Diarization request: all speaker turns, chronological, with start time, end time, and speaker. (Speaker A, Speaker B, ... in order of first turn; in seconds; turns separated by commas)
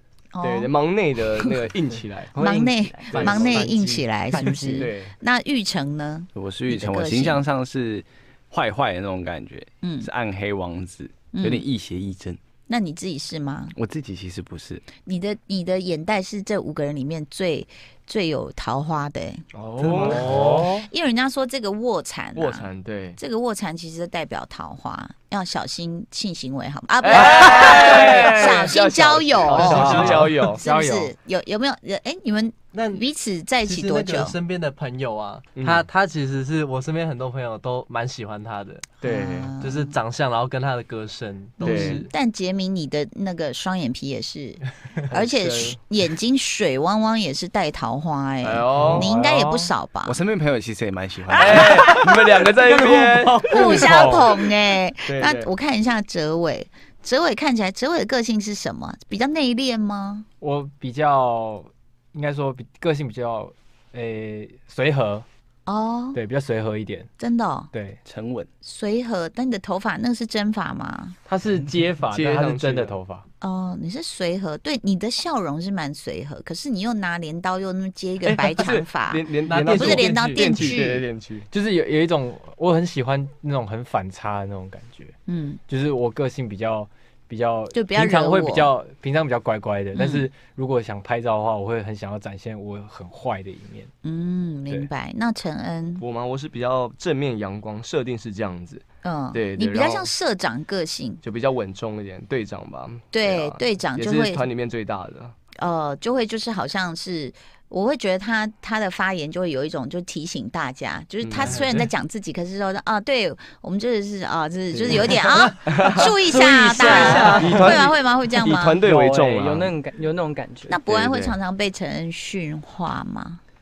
Speaker A: 0.3-0.7, Speaker B: 0.4-2.4, Speaker C: 2.3-4.9, Speaker A: 2.4-7.4, Speaker B: 3.1-3.7, Speaker B: 4.7-5.1, Speaker D: 6.3-12.4, Speaker A: 9.8-10.1, Speaker A: 11.3-11.6, Speaker A: 12.7-13.7, Speaker D: 13.8-14.8, Speaker A: 15.0-19.4, Speaker B: 19.5-20.6, Speaker E: 19.8-20.9, Speaker A: 20.8-34.4, Speaker B: 22.3-23.2, Speaker B: 27.0-30.6, Speaker E: 27.9-28.6, Speaker E: 29.5-31.1, Speaker F: 29.6-30.3, Speaker F: 32.7-33.0, Speaker F: 33.6-38.9, Speaker B: 35.5-35.8, Speaker B: 39.0-39.5, Speaker A: 39.0-40.0, Speaker F: 39.6-42.1, Speaker A: 41.6-50.2, Speaker B: 41.6-42.1, Speaker B: 45.1-45.8, Speaker B: 48.4-49.1, Speaker E: 48.8-49.7, Speaker D: 50.0-51.9, Speaker A: 51.3-52.0, Speaker B: 51.4-54.0, Speaker E: 52.7-54.4, Speaker A: 53.4-60.2, Speaker B: 55.0-55.5, Speaker E: 60.4-65.2, Speaker A: 65.7-66.2, Speaker E: 66.1-67.1, Speaker A: 67.2-67.7, Speaker E: 67.7-68.0, Speaker D: 68.0-68.5, Speaker A: 68.6-71.2, Speaker E: 71.2-73.2, Speaker B: 72.1-73.0, Speaker A: 73.4-81.0, Speaker B: 78.2-81.5, Speaker F: 79.5-80.8, Speaker E: 81.5-85.1, Speaker A: 85.3-85.6, Speaker E: 85.7-93.9, Speaker A: 87.7-88.7, Speaker A: 89.9-90.3, Speaker A: 94.0-96.0, Speaker B: 96.0-100.1, Speaker A: 99.0-101.2, Speaker B: 101.2-105.3, Speaker A: 103.1-104.4, Speaker A: 105.6-118.8, Speaker B: 111.2-111.6, Speaker F: 111.4-111.9, Speaker B: 114.7-115.1, Speaker B: 115.7-116.2, Speaker C: 116.2-117.7, Speaker F: 116.8-117.8, Speaker B: 117.3-119.7, Speaker C: 118.8-120.8, Speaker A: 120.7-123.4, Speaker B: 120.9-121.4